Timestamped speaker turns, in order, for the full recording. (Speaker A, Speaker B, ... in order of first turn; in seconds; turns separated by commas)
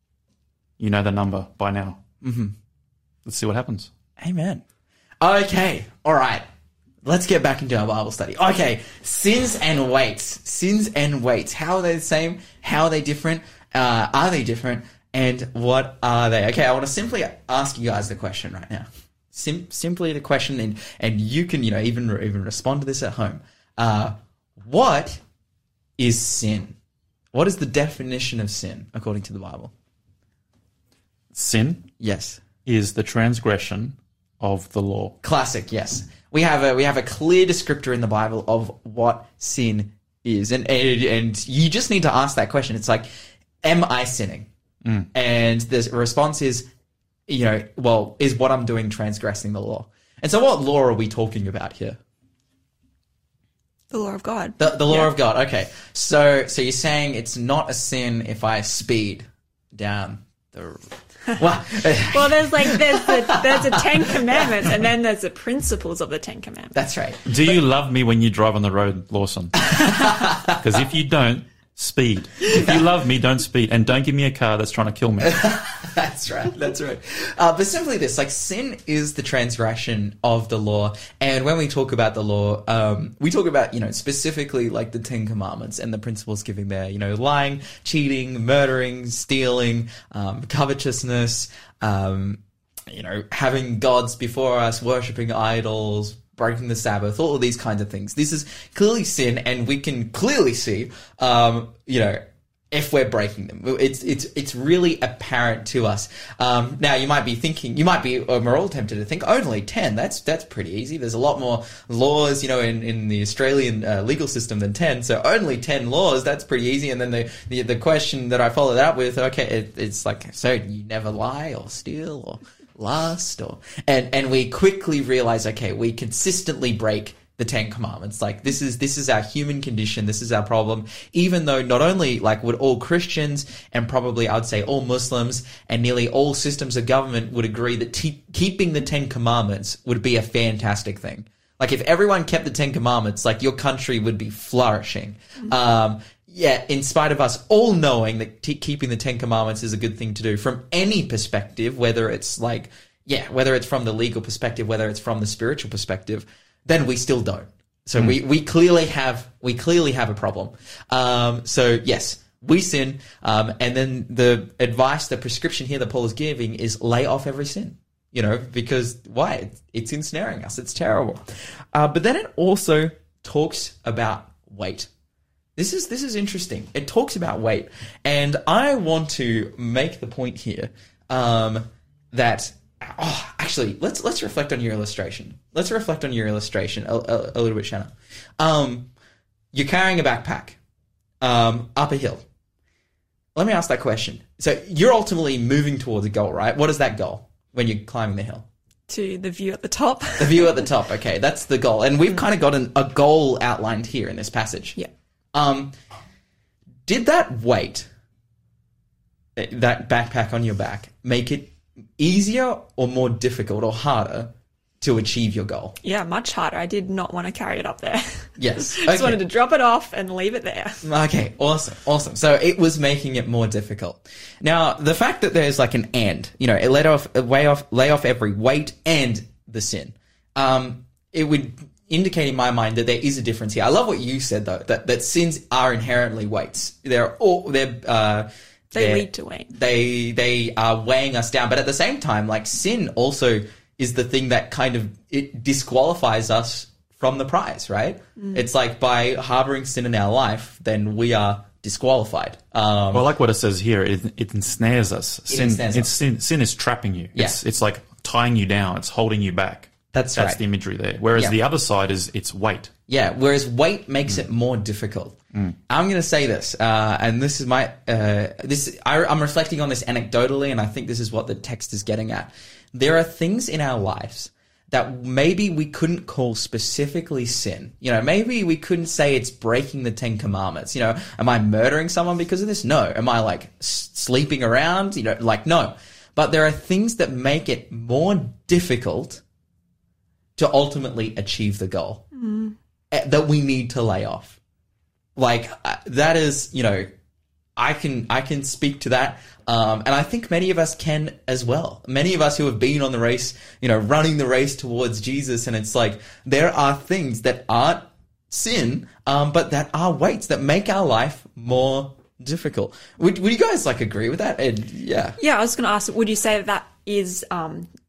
Speaker A: 0.8-2.0, Speaker B: 2.2-2.5, Speaker A: 3.2-3.9, Speaker B: 4.2-4.6, Speaker B: 5.2-6.4, Speaker B: 7.0-25.2, Speaker B: 26.0-26.8, Speaker B: 27.3-29.7, Speaker A: 31.3-31.9, Speaker B: 32.0-32.4, Speaker A: 32.6-35.2, Speaker B: 35.2-43.1, Speaker B: 43.6-44.5, Speaker B: 45.1-46.7, Speaker B: 47.3-52.0, Speaker C: 53.9-55.1, Speaker B: 54.6-64.1, Speaker C: 62.1-66.8, Speaker B: 66.8-67.3, Speaker A: 67.3-75.5, Speaker B: 69.7-70.6, Speaker B: 75.2-102.2, Speaker B: 102.7-174.9, Speaker B: 175.6-188.9, Speaker B: 189.5-190.6, Speaker B: 191.2-192.2, Speaker B: 193.3-198.5, Speaker C: 198.9-200.7, Speaker B: 200.2-204.8, Speaker B: 205.3-205.7, Speaker B: 206.9-207.9, Speaker B: 209.4-214.3, Speaker B: 214.8-215.8, Speaker C: 215.8-220.8, Speaker B: 218.4-219.2, Speaker B: 220.8-253.1, Speaker C: 238.7-239.5, Speaker C: 248.2-248.5, Speaker A: 252.9-262.7, Speaker B: 255.3-255.9, Speaker B: 259.9-260.4, Speaker B: 262.9-265.2, Speaker B: 265.7-289.2, Speaker B: 290.4-292.0, Speaker C: 292.1-292.6, Speaker B: 292.9-294.4, Speaker B: 295.2-296.9, Speaker B: 297.6-315.2, Speaker C: 315.2-317.7